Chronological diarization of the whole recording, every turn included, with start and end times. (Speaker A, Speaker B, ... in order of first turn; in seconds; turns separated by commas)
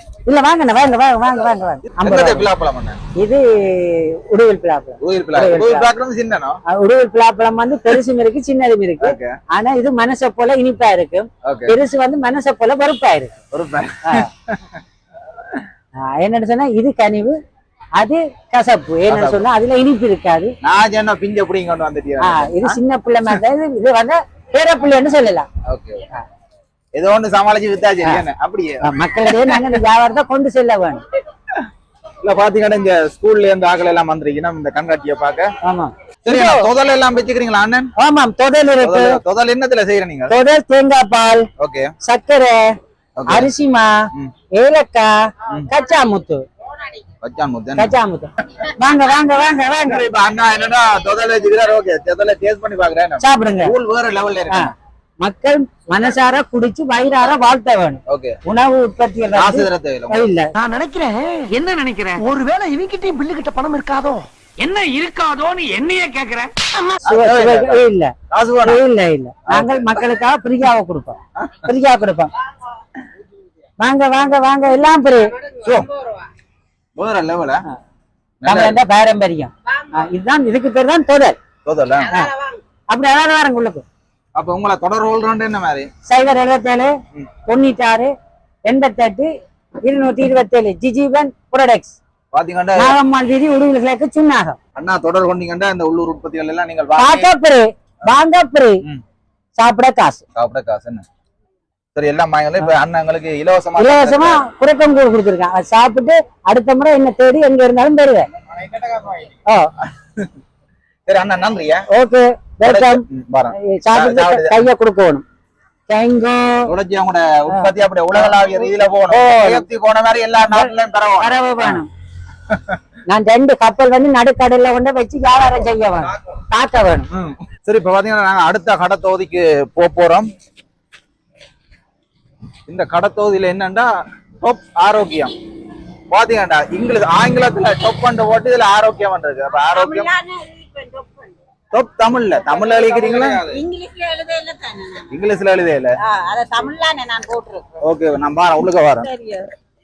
Speaker A: 0.2-2.5, Speaker B: 1.9-3.0, Speaker A: 3.2-5.9, Speaker B: 5.0-6.6, Speaker A: 6.7-13.4, Speaker B: 9.0-9.4, Speaker B: 11.4-11.8, Speaker B: 13.5-14.8, Speaker A: 16.0-17.4, Speaker A: 18.0-20.5, Speaker B: 19.1-19.5, Speaker B: 20.6-23.4, Speaker A: 22.2-25.5, Speaker B: 25.6-26.1, Speaker B: 26.9-29.7, Speaker A: 28.8-31.0, Speaker B: 32.2-35.5, Speaker A: 35.6-36.7, Speaker B: 36.2-37.9, Speaker A: 38.0-39.2, Speaker B: 38.8-40.3, Speaker A: 40.3-41.5, Speaker B: 41.6-41.9, Speaker A: 42.0-42.8, Speaker B: 43.2-43.5, Speaker A: 43.3-43.9, Speaker A: 44.5-46.4, Speaker B: 47.2-47.9, Speaker A: 47.8-50.0, Speaker B: 49.9-54.7, Speaker A: 53.2-53.7, Speaker A: 54.5-60.5, Speaker B: 58.1-58.4, Speaker B: 59.3-60.3, Speaker C: 60.5-67.0, Speaker B: 67.0-68.8, Speaker A: 67.0-68.1, Speaker A: 68.6-72.3, Speaker B: 69.5-70.0, Speaker B: 71.3-71.7, Speaker A: 73.8-75.3, Speaker B: 75.5-75.9, Speaker B: 77.0-77.6, Speaker B: 78.4-78.8, Speaker A: 78.5-81.3, Speaker B: 81.6-82.2, Speaker A: 82.9-83.8, Speaker B: 84.3-85.9, Speaker A: 86.1-86.9, Speaker A: 87.5-88.1, Speaker A: 88.6-89.3, Speaker A: 89.8-92.0, Speaker B: 92.3-93.0, Speaker A: 92.8-94.6, Speaker B: 94.8-97.3, Speaker A: 97.0-98.8, Speaker A: 99.6-100.2, Speaker B: 100.3-101.0, Speaker B: 101.9-104.4, Speaker A: 103.8-108.3, Speaker B: 108.6-109.2, Speaker A: 109.5-109.7, Speaker B: 109.8-110.3, Speaker B: 111.0-111.8, Speaker A: 111.9-113.0, Speaker B: 112.6-114.7, Speaker A: 113.6-115.2, Speaker A: 115.9-116.7, Speaker B: 116.7-121.8, Speaker A: 117.5-119.6, Speaker A: 120.4-121.9, Speaker B: 122.5-122.8, Speaker A: 123.1-127.1, Speaker B: 127.1-130.3, Speaker B: 132.7-133.9, Speaker B: 134.4-135.3, Speaker B: 136.1-140.1, Speaker D: 139.6-141.3, Speaker B: 141.7-143.6, Speaker D: 142.4-145.1, Speaker B: 145.1-146.0, Speaker D: 146.1-147.6, Speaker B: 147.8-149.1, Speaker D: 149.0-149.4